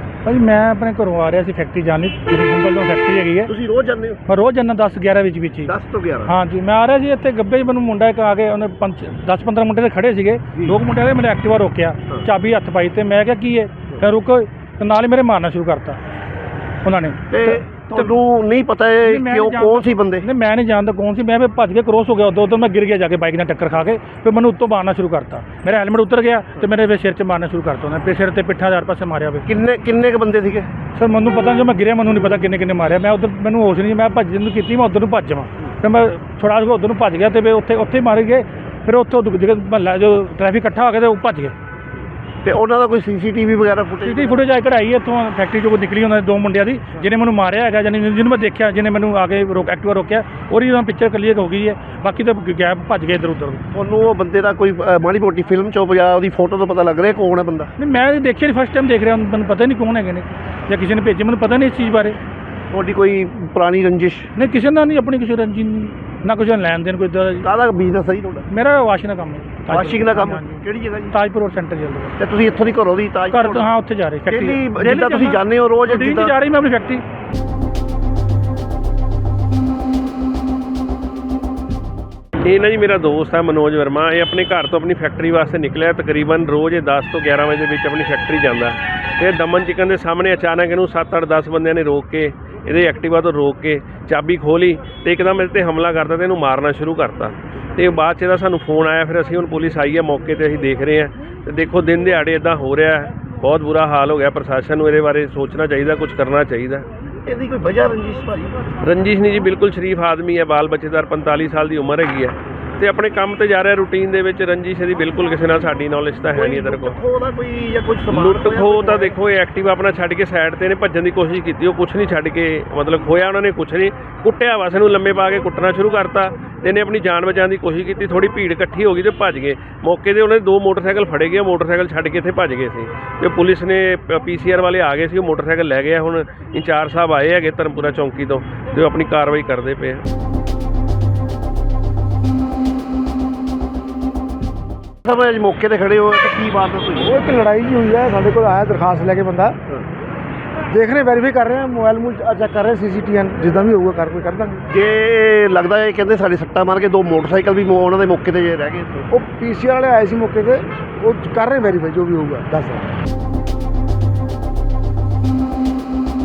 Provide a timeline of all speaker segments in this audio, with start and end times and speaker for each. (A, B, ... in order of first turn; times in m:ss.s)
0:00.2-0:03.5 A
0:03.5-0:04.2 B
0:04.3-0:05.7 A
0:05.6-0:06.3 B
0:06.2-0:16.0 A
0:16.8-0:18.1 A
0:17.3-0:20.2 B
0:19.0-0:29.4 A
0:29.4-0:30.7 B
0:30.9-0:41.5 A
0:42.4-0:44.4 B
0:44.0-0:53.6 A
0:53.7-0:57.7 B
0:57.8-1:02.2 A
1:02.7-1:04.3 B
1:04.4-1:07.5 A
1:07.4-1:08.4 B
1:08.5-1:12.2 A
1:09.7-1:11.2 B
1:12.2-1:13.7 B
1:13.3-1:17.0 A
1:14.3-1:16.3 B
1:22.4-1:46.8 C
1:47.2-1:48.7 B
1:48.8-1:57.0 C
1:56.3-1:59.2 B
1:58.1-2:20.0 C
2:25.0-2:27.2 B
2:27.0-2:29.5 D
2:30.7-2:34.6 D
2:34.7-2:39.1 B
2:39.1-2:42.8 D